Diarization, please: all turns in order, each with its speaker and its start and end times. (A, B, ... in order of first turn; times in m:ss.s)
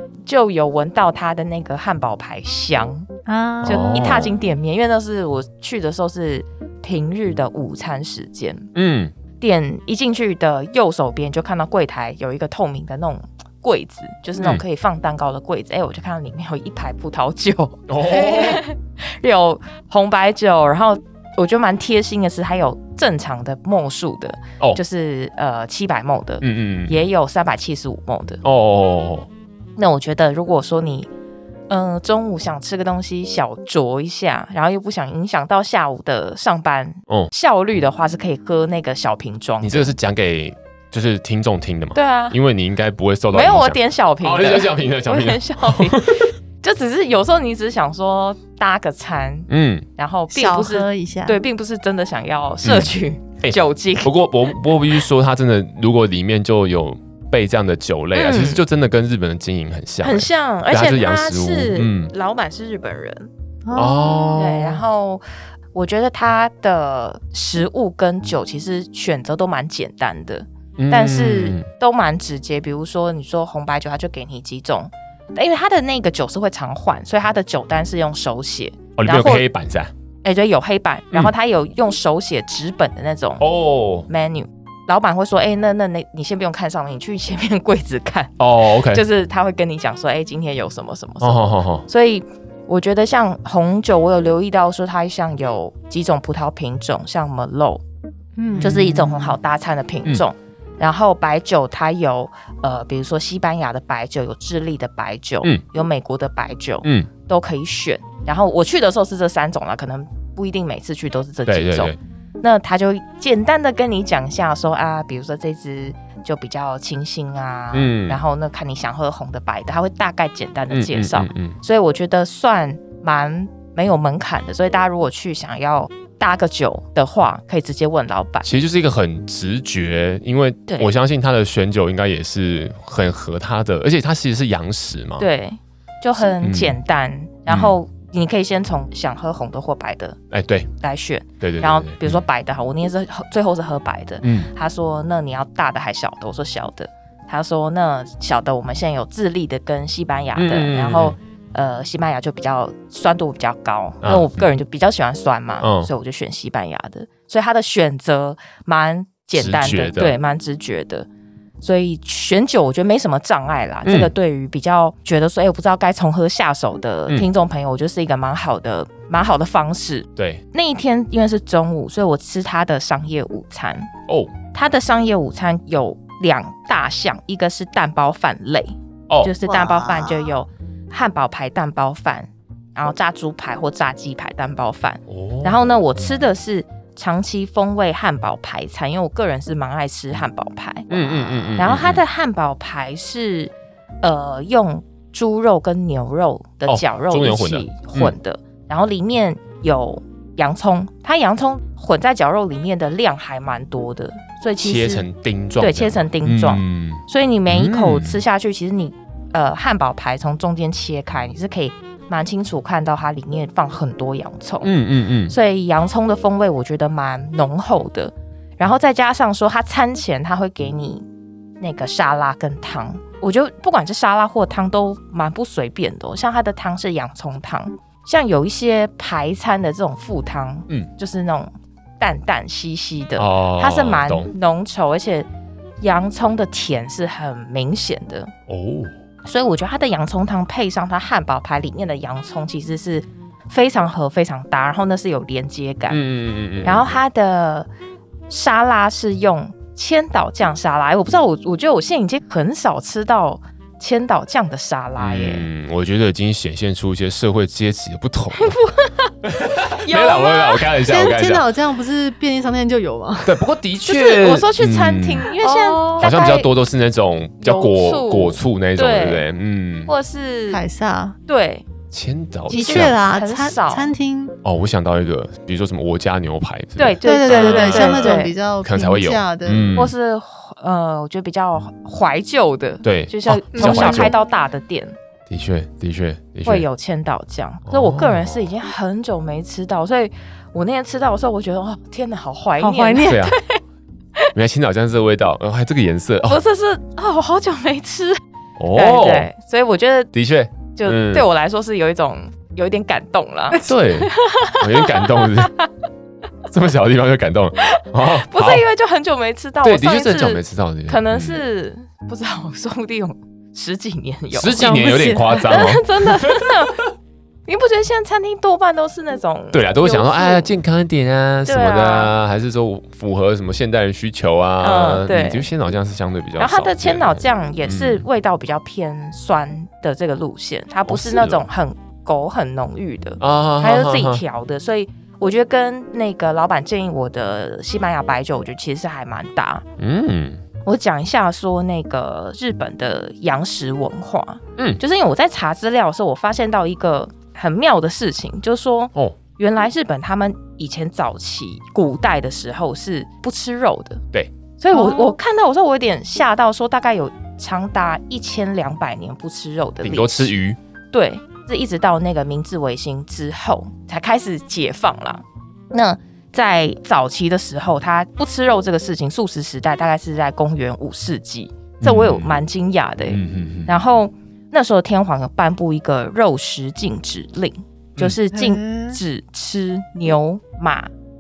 0:00.3-0:03.1 A
0:03.3-0:04.0 B
0:03.6-0:04.3 C
0:03.6-0:08.7 A
0:08.7-0:09.1 C
0:09.4-0:28.4 A
0:14.4-0:14.6 C
0:17.9-0:18.6 C
0:26.4-0:27.0 C
0:28.4-0:29.3 C
0:29.8-0:31.1 A
0:31.7-0:39.9 A
0:39.6-0:46.3 C
0:42.0-0:42.4 A
0:43.3-0:54.1 A
0:49.5-0:49.9 C
0:50.3-0:51.4 B
0:52.6-1:02.1 C
0:58.1-0:58.6 A
1:00.0-1:03.3 A
1:03.6-1:04.4 B
1:03.8-1:04.8 C
1:04.4-1:05.2 A
1:05.8-1:19.4 A
1:10.8-1:11.6 C
1:19.0-1:19.9 C
1:20.2-1:23.4 A
1:23.4-1:24.1 C
1:24.1-1:37.8 A
1:28.4-1:29.0 C
1:31.2-1:31.9 C
1:38.4-1:39.4 B
1:38.6-2:08.5 A
1:46.8-1:47.1 C
1:51.5-1:52.0 C
1:57.7-1:58.2 C
2:00.7-2:01.6 C
2:08.4-2:15.3 C
2:15.2-2:20.2 A
2:16.4-2:16.8 C
2:17.5-2:17.7 C
2:20.3-2:20.7 C
2:20.8-2:41.1 A
2:21.4-2:22.2 C
2:24.2-2:24.5 C
2:30.4-2:31.2 C
2:34.0-2:34.5 C
2:35.6-2:35.9 C
2:39.3-2:40.2 C
2:41.6-2:53.9 A
2:43.8-2:44.1 C
2:50.2-2:50.4 C
2:54.1-2:54.3 C
2:54.5-3:25.0 A
2:59.5-3:00.3 B
3:05.1-3:05.6 C
3:10.9-3:12.0 C
3:16.7-3:18.2 C
3:24.6-3:28.2 C
3:25.6-3:34.7 A
3:34.6-3:35.4 C
3:35.3-3:41.1 A
3:41.6-3:55.3 A
3:53.2-3:54.3 C
3:55.8-3:58.3 A
3:58.5-3:58.9 C
3:59.2-4:06.0 A
4:05.9-4:07.0 C
4:06.6-4:07.7 A
4:08.3-4:15.5 A
4:15.0-4:18.6 C
4:18.4-4:19.1 A
4:19.2-4:21.5 C
4:19.7-4:20.6 A
4:20.9-4:23.4 B
4:23.2-4:25.3 C
4:23.9-4:26.5 A
4:25.4-4:26.0 B
4:26.0-4:29.9 C
4:27.4-4:29.3 A
4:29.9-4:30.6 A
4:30.5-4:31.2 B
4:31.3-4:31.6 A
4:31.9-4:33.0 C
4:32.5-4:33.9 A
4:32.5-4:34.4 B
4:34.4-4:39.9 C
4:36.8-4:38.3 A
4:37.0-4:39.7 B
4:39.8-4:45.0 A
4:42.8-4:44.1 C
4:43.6-4:44.2 B
4:45.3-4:46.7 C
4:46.4-4:53.6 A
4:47.7-4:48.5 C
4:52.6-4:53.2 B
4:53.0-4:53.4 C
4:54.3-4:56.4 C
4:56.3-4:58.2 A
4:58.6-4:59.3 C
4:58.7-5:00.1 A
5:00.1-5:01.3 C
5:00.7-5:05.7 A
5:03.6-5:05.5 C
5:06.5-5:08.6 C
5:07.7-5:14.8 A
5:09.6-5:11.4 C
5:14.3-5:16.7 C
5:14.6-5:15.6 B
5:15.3-5:16.8 A
5:17.5-5:20.5 A
5:19.5-5:28.0 C
5:21.5-5:22.1 A
5:24.6-5:25.5 A
5:26.4-5:39.6 A
5:30.9-5:31.4 C
5:33.2-5:34.2 C
5:39.8-5:40.4 C
5:40.6-5:54.0 A
5:54.6-6:00.3 A
5:54.7-5:55.2 B
5:59.8-6:00.6 C
6:00.9-6:20.9 A
6:11.8-6:12.4 C
6:13.1-6:13.7 C
6:18.3-6:19.0 B